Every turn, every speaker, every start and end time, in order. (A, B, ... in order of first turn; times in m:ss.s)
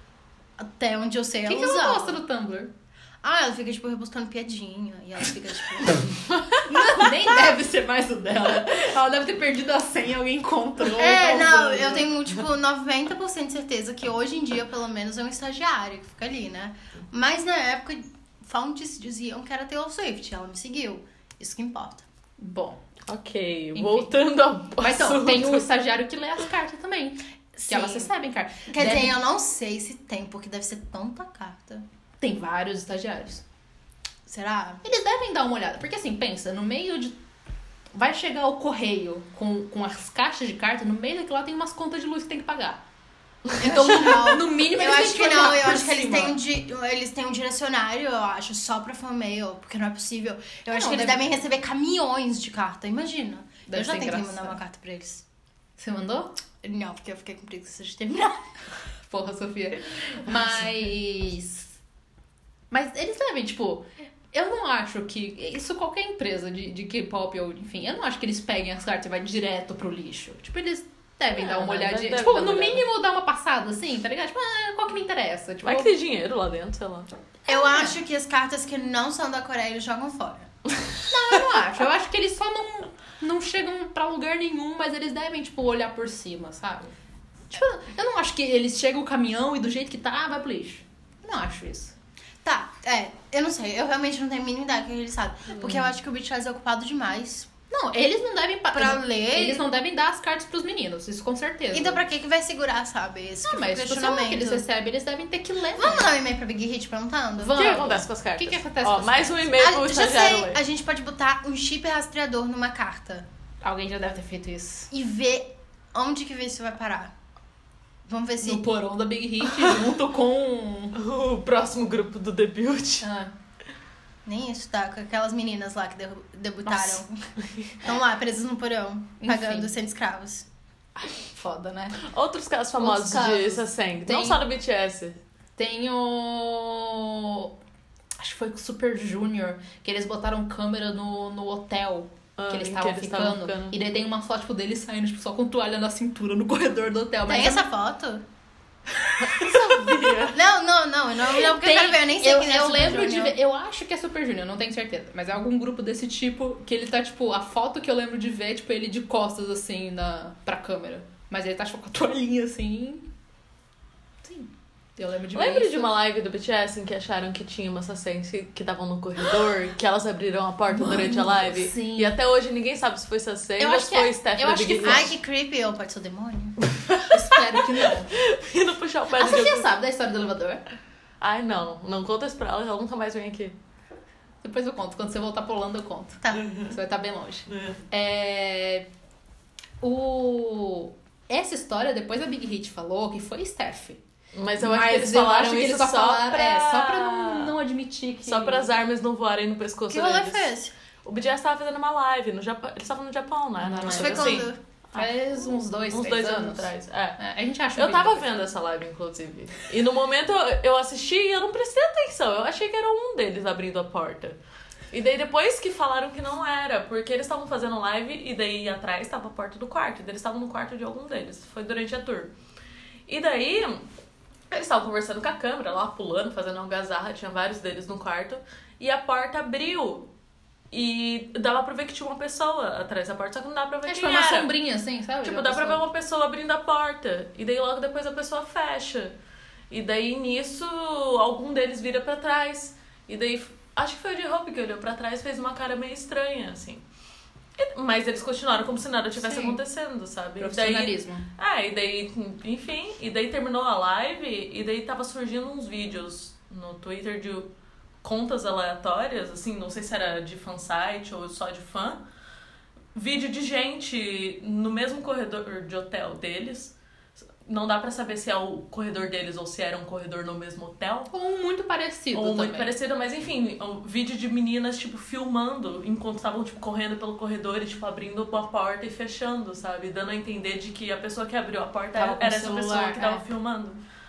0:00.6-0:02.2 A
0:01.4-0:02.7 B
0:03.2-0:06.2 A
0:06.3-0:06.6 C
0:06.5-0:12.2 B
0:11.0-0:22.0 A
0:22.4-0:22.8 B
0:23.1-0:25.6 C
0:23.7-0:24.1 B
0:24.8-0:29.2 B
0:27.6-0:28.1 A
0:28.7-0:31.8 A
0:32.2-0:33.4 B
0:34.2-0:34.8 A
0:34.8-0:37.2 B
0:37.9-0:42.8 B
0:43.6-0:46.4 B
0:43.6-0:55.2 A
0:50.7-0:51.3 B
0:53.7-0:54.6 B
0:55.8-0:56.3 B
0:56.6-0:58.4 A
0:59.1-1:01.8 B
1:02.7-1:15.9 B
1:11.3-1:12.8 C
1:15.6-1:17.1 C
1:17.5-1:18.0 B
1:17.5-1:20.5 A
1:21.1-1:26.9 B
1:27.5-1:31.9 B
1:32.4-1:37.5 A
1:35.6-1:35.9 B
1:37.7-1:42.0 B
1:38.7-1:39.6 A
1:41.7-1:44.6 A
1:43.4-1:46.1 B
1:45.7-1:47.7 A
1:47.4-1:49.6 B
1:47.5-1:50.6 C
1:49.6-1:53.2 A
1:53.6-1:54.9 B
1:54.9-1:57.1 A
1:58.0-1:58.7 A
1:58.4-2:00.9 B
2:00.9-2:03.1 C
2:03.0-2:03.3 B
2:04.2-2:07.2 A
2:06.6-2:07.0 B
2:07.4-2:07.8 C
2:07.8-2:10.4 A
2:09.2-2:09.7 B
2:11.0-2:12.0 B
2:12.0-2:15.2 C
2:12.8-2:14.4 B
2:15.6-2:17.5 B
2:18.2-2:27.7 B
2:22.4-2:23.8 C
2:27.3-2:28.2 A
2:29.2-2:30.4 C
2:29.2-2:30.2 B
2:30.3-2:33.3 A
2:31.3-2:43.1 B
2:44.2-2:46.0 B
2:45.3-2:55.1 C
2:50.7-2:52.2 B
2:53.6-2:55.1 B
2:54.8-2:56.6 A
2:56.6-2:59.7 C
2:57.1-2:58.1 B
2:59.1-3:00.6 B
3:01.2-3:03.6 C
3:04.4-3:08.9 B
3:06.2-3:06.5 A
3:06.4-3:06.7 C
3:07.5-3:07.8 C
3:09.8-3:14.0 B
3:14.3-3:17.5 C
3:14.6-3:18.7 B
3:18.2-3:20.5 C
3:19.9-3:20.7 A
3:21.0-3:25.1 C
3:23.6-3:28.4 B
3:23.8-3:24.6 A
3:25.9-3:27.2 C
3:27.7-3:34.4 C
3:34.9-3:42.3 C
3:43.1-3:43.9 C
3:44.5-3:50.1 C
3:50.7-3:54.5 C
3:53.8-3:55.8 B
3:55.2-3:59.1 C
3:59.7-4:06.8 C
4:07.6-4:17.5 C
4:10.4-4:11.3 B
4:18.0-4:22.0 C
4:22.9-4:26.7 C
4:27.3-4:31.1 C
4:31.1-4:32.7 B
4:32.1-4:43.8 C
4:41.9-4:43.3 B